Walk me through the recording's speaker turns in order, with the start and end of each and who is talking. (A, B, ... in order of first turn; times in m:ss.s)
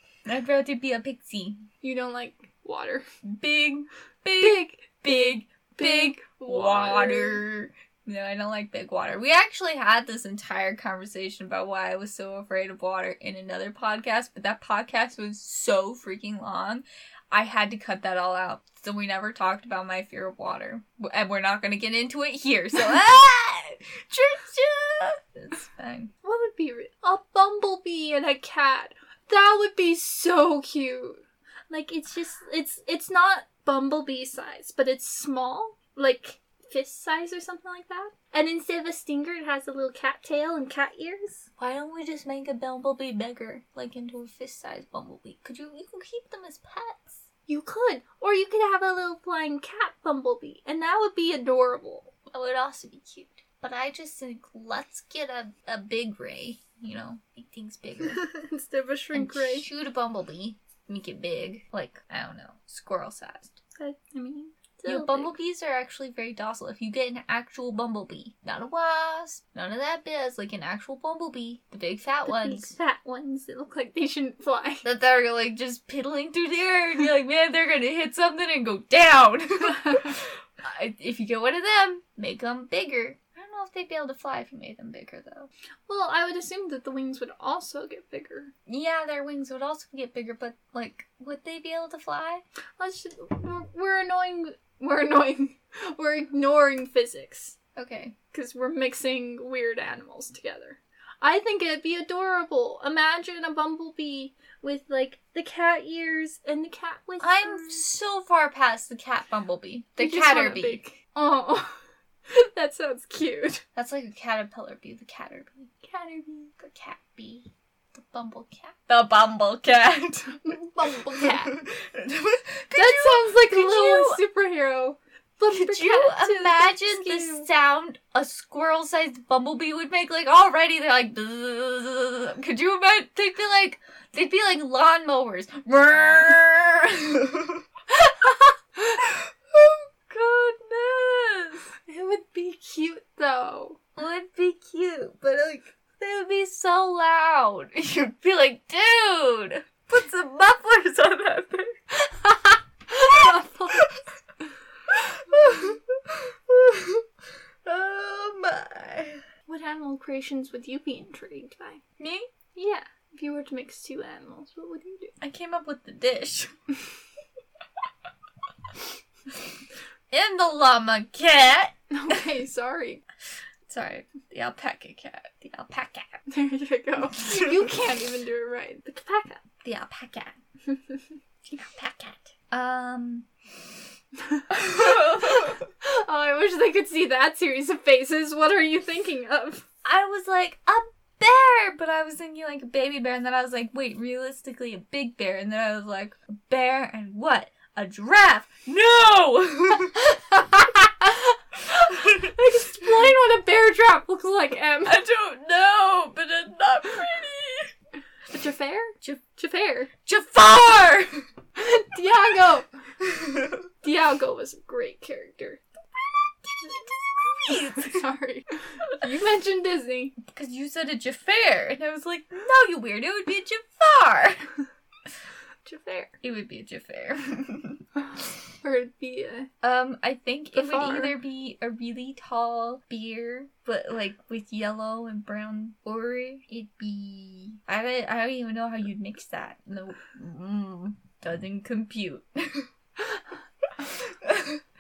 0:00.3-0:01.6 A
0:01.8-0:03.0 B
0:03.2-0:26.1 A
0:04.4-0:07.4 B
0:26.2-0:41.5 B
0:41.6-0:47.2 A
0:47.5-0:52.1 B
0:52.3-0:58.3 A
0:58.1-0:59.7 B
0:59.1-1:03.6 A
1:03.8-1:05.3 B
1:04.9-1:12.7 A
1:12.3-1:14.9 B
1:14.8-1:25.5 A
1:25.9-1:28.5 B
1:28.7-1:32.4 A
1:32.8-1:37.6 B
1:37.8-1:38.2 A
1:38.3-1:47.8 B
1:47.2-1:50.8 A
1:50.0-1:53.6 B
1:53.8-1:55.7 A
1:55.8-1:56.5 B
1:56.6-2:04.2 A
2:00.4-2:01.6 B
2:02.7-2:07.5 B
2:05.5-2:17.6 A
2:17.9-2:19.0 B
2:19.0-2:21.7 A
2:21.9-2:23.8 B
2:24.0-2:31.7 A
2:32.0-2:33.9 B
2:34.9-2:37.0 A
2:35.3-2:35.7 B
2:37.6-2:39.2 A
2:39.5-2:41.8 B
2:42.0-2:42.3 A
2:42.6-2:45.1 B
2:45.2-2:46.5 A
2:50.1-2:52.2 A
2:51.9-2:53.0 B
2:53.7-2:56.2 A
2:56.3-2:59.4 B
2:59.6-3:00.4 A
3:00.7-3:01.0 B
3:01.5-3:03.3 A
3:04.2-3:09.7 B
3:04.5-3:05.6 A
3:09.8-3:20.1 A
3:20.0-3:25.0 B
3:21.9-3:22.3 A
3:24.8-3:27.7 A
3:28.3-3:29.9 B
3:30.0-3:31.2 A
3:31.6-3:32.7 B
3:33.8-3:35.6 B
3:36.4-3:38.1 A
3:37.5-3:40.2 B
3:40.2-3:44.5 A
3:45.6-3:46.2 B
3:46.2-3:47.8 A
3:48.6-3:49.5 B
3:49.6-4:02.7 A
3:50.5-3:51.2 B
4:03.8-4:04.6 A